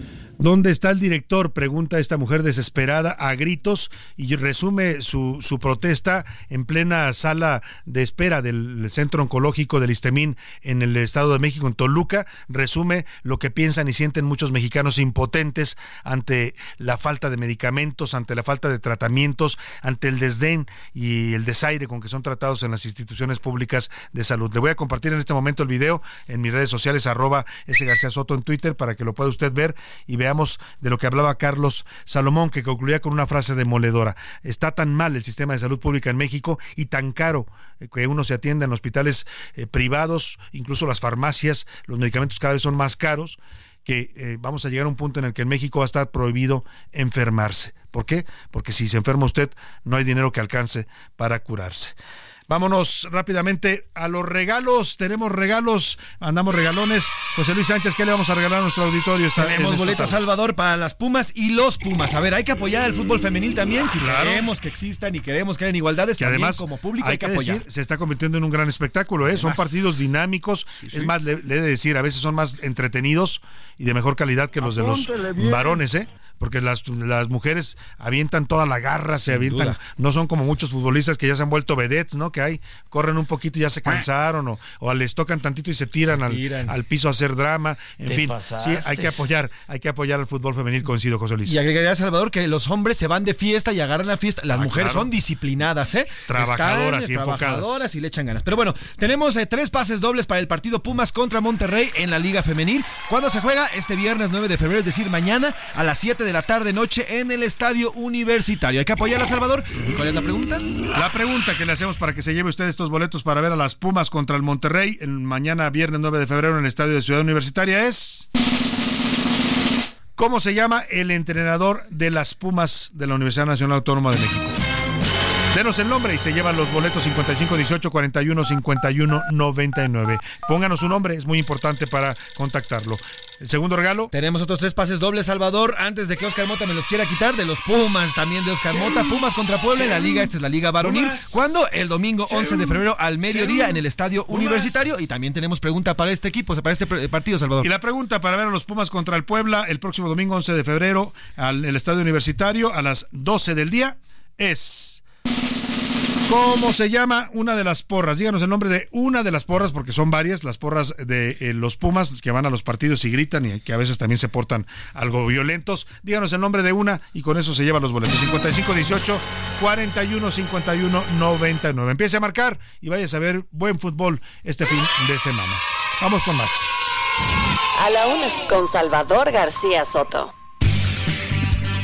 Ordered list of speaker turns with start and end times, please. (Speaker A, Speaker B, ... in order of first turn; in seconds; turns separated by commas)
Speaker A: 0.4-52.0, Speaker A: 52.5-60.2, Speaker B: 59.4-67.6, Speaker A: 64.0-64.5, Speaker A: 66.2-91.6, Speaker B: 79.2-79.8, Speaker B: 86.3-86.7, Speaker B: 91.5-110.6, Speaker A: 94.5-95.1, Speaker A: 96.3-97.9, Speaker A: 110.9-118.3, Speaker A: 120.2-124.6, Speaker A: 125.5-134.1, Speaker B: 134.1-147.7, Speaker A: 147.6-155.0, Speaker A: 156.3-176.9, Speaker C: 177.8-180.3